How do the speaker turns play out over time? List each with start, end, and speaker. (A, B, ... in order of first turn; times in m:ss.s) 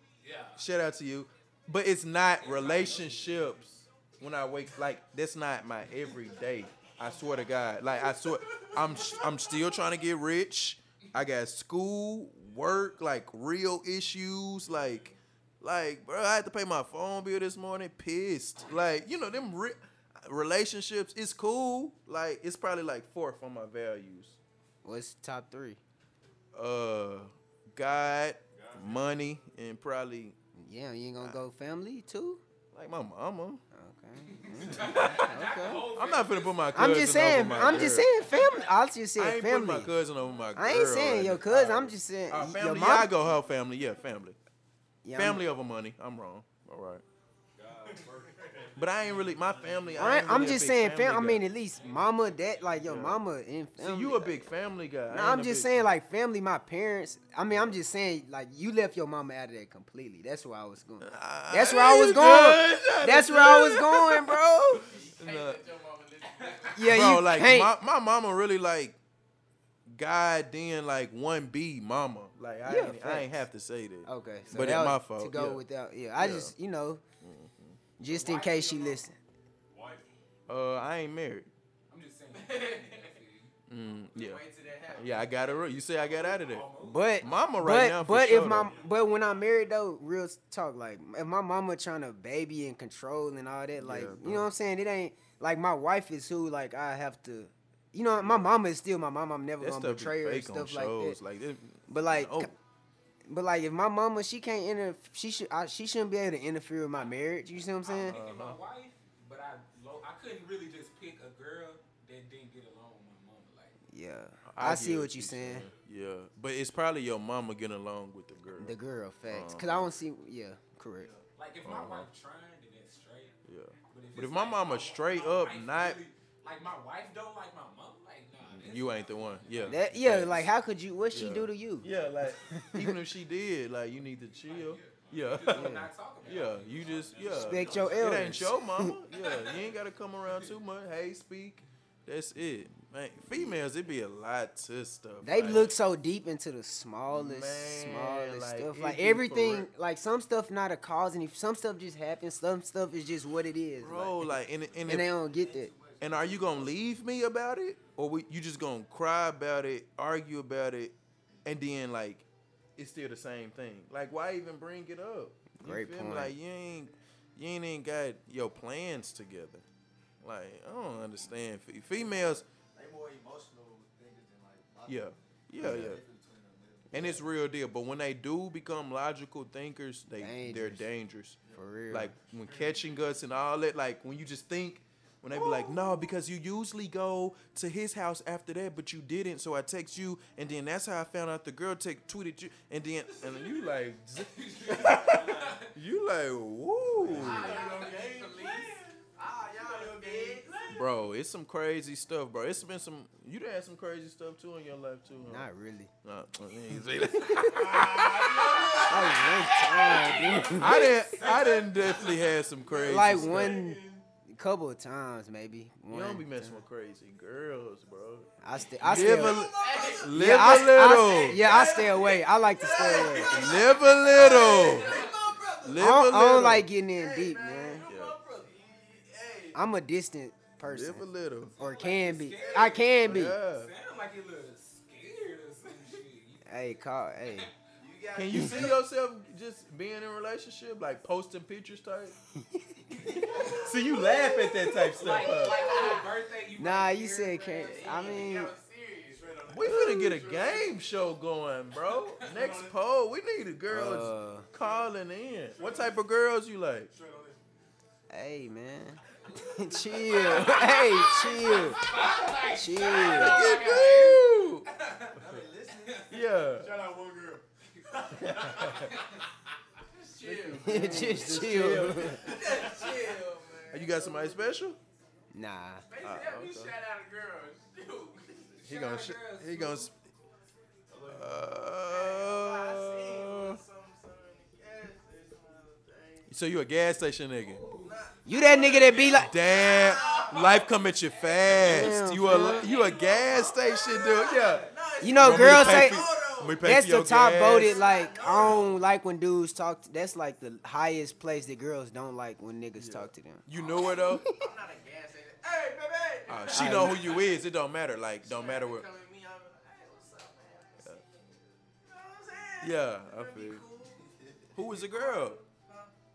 0:00.2-0:00.6 A
0:00.6-0:24.4 B
0:02.4-0:03.5 A
0:14.7-0:15.1 C
0:24.8-0:25.8 D
0:26.5-0:30.4 B
0:28.5-0:29.3 C
0:30.6-0:32.4 D
0:32.7-0:33.6 B
0:33.7-0:35.8 D
0:34.3-0:38.7 A
0:34.9-0:35.2 B
0:35.9-0:38.1 B
0:36.7-0:39.9 D
0:39.2-0:44.4 B
0:40.6-0:43.1 D
0:45.0-0:45.4 D
0:45.1-0:47.0 B
0:47.5-0:50.6 C
0:48.8-0:51.4 B
0:50.0-0:54.4 D
0:51.8-0:52.1 C
0:52.8-0:53.2 B
0:53.8-0:55.9 B
0:55.1-1:04.9 D
1:01.0-1:05.6 B
1:04.9-1:06.9 E
1:06.3-1:06.8 A
1:06.7-1:07.7 D
1:06.8-1:09.0 B
1:09.9-1:15.6 B
1:12.6-1:13.3 D
1:14.0-1:17.0 D
1:16.1-1:16.5 B
1:17.2-1:17.8 B
1:18.0-1:19.2 D
1:18.1-1:19.0 E
1:18.4-1:18.8 A
1:19.7-1:20.1 C
1:20.5-1:21.5 B
1:21.9-1:23.5 A
1:22.3-1:23.1 E
1:23.7-1:26.7 B
1:24.1-1:25.5 E
1:26.2-1:27.2 A
1:26.8-1:41.2 D
1:27.2-1:28.7 B
1:28.4-1:29.6 C
1:33.8-1:34.5 B
1:38.2-1:38.5 B
1:39.6-1:42.5 B
1:41.9-1:42.5 D
1:43.3-1:48.2 D
1:47.8-1:53.7 A
1:48.0-1:48.6 B
1:53.9-1:55.6 D
1:54.4-1:58.8 B
1:58.6-2:01.1 D
1:59.3-2:00.0 B
2:01.3-2:03.3 A
2:01.6-2:02.1 B
2:03.4-2:06.0 B
2:03.9-2:09.8 A
2:08.5-2:10.5 B
2:09.7-2:11.9 D
2:11.1-2:25.8 B
2:12.4-2:13.0 D
2:14.4-2:15.5 C
2:15.2-2:18.3 A
2:15.5-2:15.9 D
2:16.4-2:18.7 C
2:17.4-2:18.9 D
2:25.2-2:35.7 D
2:27.1-2:29.7 B
2:33.8-2:35.1 B
2:35.3-2:36.0 F
2:36.0-2:42.2 B
2:42.8-2:49.6 B
2:45.5-2:46.3 D
2:50.2-2:52.4 B
2:52.8-2:55.0 F
2:54.9-2:56.0 B
2:55.6-2:55.9 D
2:55.7-2:56.9 F
2:56.9-3:17.6 B
3:00.2-3:00.8 D
3:01.5-3:02.1 D
3:14.3-3:15.7 A
3:15.0-3:15.4 C
3:17.0-3:18.9 C
3:17.0-3:20.8 E
3:17.2-3:18.1 A
3:19.6-3:20.8 C
3:20.7-3:25.5 B
3:25.2-3:25.9 D
3:26.0-3:29.2 B
3:27.5-3:29.3 C
3:28.9-3:30.8 D
3:29.2-3:32.3 A
3:30.5-3:33.6 B
3:32.6-3:34.0 C
3:32.8-3:36.6 D
3:35.9-3:38.3 B
3:38.4-3:39.5 D
3:38.8-3:41.6 B
3:39.1-3:45.8 E
3:40.0-3:43.4 D
3:42.8-3:43.6 C
3:43.0-3:43.2 F
3:43.2-3:44.9 B
3:44.3-3:45.1 A
3:45.6-3:46.7 B
3:45.8-3:47.8 D
3:46.9-3:49.6 E
3:47.8-3:48.1 B
3:49.5-3:51.0 D
3:50.6-3:51.5 B
3:51.6-3:56.4 A
3:51.6-3:53.4 D
3:52.4-3:52.8 E
3:53.0-3:53.7 B
3:56.4-3:57.5 D
3:57.8-3:58.8 E
3:58.1-4:02.2 B
3:58.3-3:58.6 D
4:02.5-4:03.6 D
4:03.1-4:03.6 A
4:03.4-4:05.7 B
4:04.9-4:08.3 A
4:05.2-4:06.1 E
4:06.6-4:08.5 D
4:07.6-4:09.3 E
4:09.1-4:10.8 C
4:09.5-4:16.9 B
4:11.9-4:12.3 A
4:12.2-4:12.7 C
4:13.7-4:14.5 D
4:14.6-4:14.9 C
4:15.5-4:16.0 C
4:16.9-4:17.4 C
4:18.1-4:19.0 D
4:19.3-4:26.1 A
4:19.5-4:23.5 D
4:20.1-4:20.9 B
4:22.9-4:24.7 B
4:25.2-4:28.9 C
4:25.4-4:25.9 E
4:26.1-4:26.8 B
4:27.8-4:29.2 A
4:28.4-4:28.9 B
4:29.9-4:34.4 E
4:30.2-4:32.4 B
4:30.6-4:32.3 D
4:31.6-4:33.0 C
4:33.7-4:34.8 B
4:35.3-4:35.8 D
4:35.9-4:38.6 E
4:36.0-4:36.7 B
4:38.6-4:39.9 A
4:38.6-4:39.9 B
4:40.9-4:41.7 C
4:41.1-4:43.6 B
4:41.8-4:46.3 E
4:46.3-4:47.6 B
4:47.4-4:47.9 A
4:47.7-4:56.7 E
4:48.2-4:49.4 D
4:49.2-4:57.8 B
4:51.6-4:52.6 D
4:54.4-4:54.7 A
4:55.0-4:56.0 D
4:56.6-5:03.4 D
4:57.3-4:58.8 E
5:02.8-5:04.2 B
5:03.5-5:07.4 E
5:04.0-5:04.5 D
5:06.3-5:08.9 B
5:06.5-5:07.0 D
5:08.2-5:15.9 E
5:12.6-5:13.6 B
5:14.5-5:15.4 B